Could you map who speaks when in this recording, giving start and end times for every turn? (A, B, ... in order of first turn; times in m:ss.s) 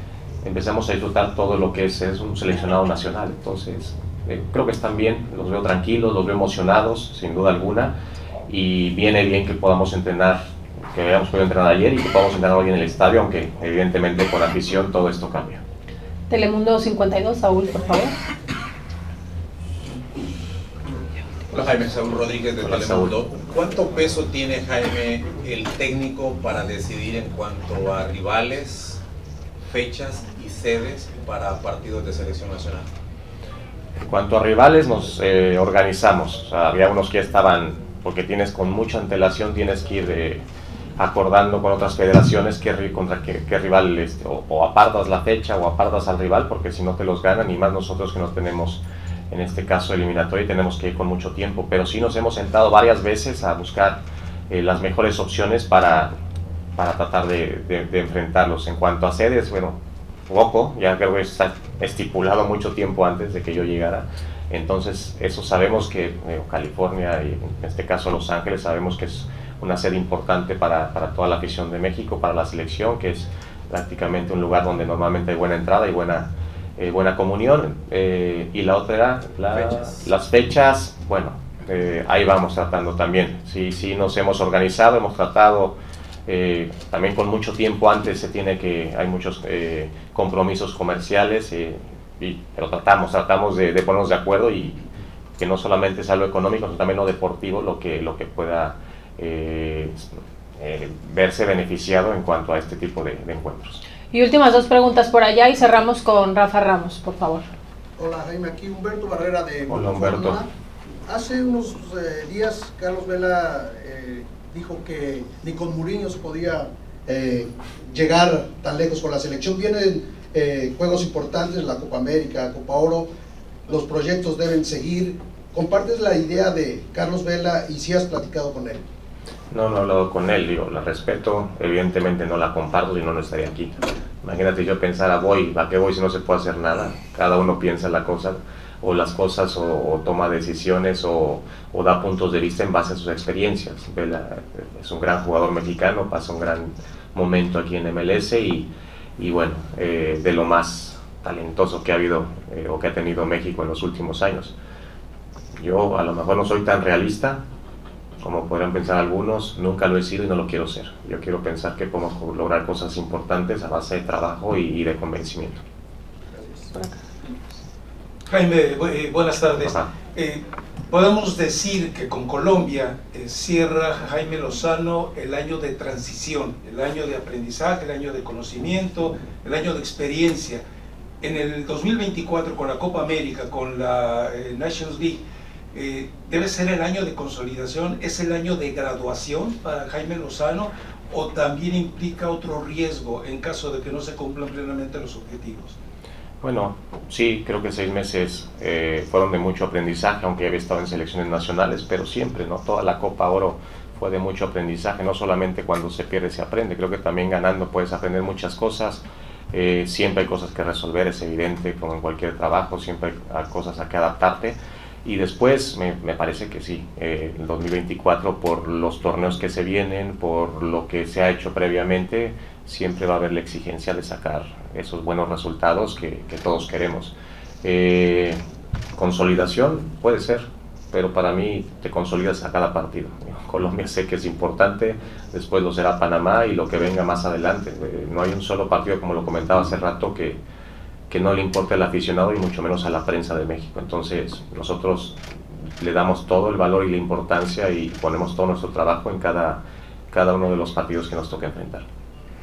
0:00.4-0:07.9 A
0:08.5-0:15.6 A
0:16.3-0:18.1 B
0:21.5-0:29.0 C
0:22.6-0:23.2 A
0:29.6-0:32.9 C
0:34.0-0:40.4 A
0:41.0-0:56.1 A
0:56.8-0:59.8 A
1:00.3-1:25.8 A
1:26.3-1:34.8 A
1:35.4-1:40.1 A
1:40.6-1:43.8 A
1:44.1-1:47.4 B
1:48.0-1:50.5 D
1:49.7-1:50.4 A
1:51.1-2:03.1 D
2:03.7-2:08.8 D
2:09.5-2:34.6 A
2:35.6-2:37.4 A
2:38.2-2:45.6 A
2:48.3-3:00.6 E
2:49.6-2:49.9 A
3:01.2-3:05.2 E
3:05.7-3:15.8 E
3:16.4-3:48.4 A
3:49.0-4:00.4 A
4:01.1-4:05.2 A
4:05.8-4:09.6 A
4:10.1-4:11.8 A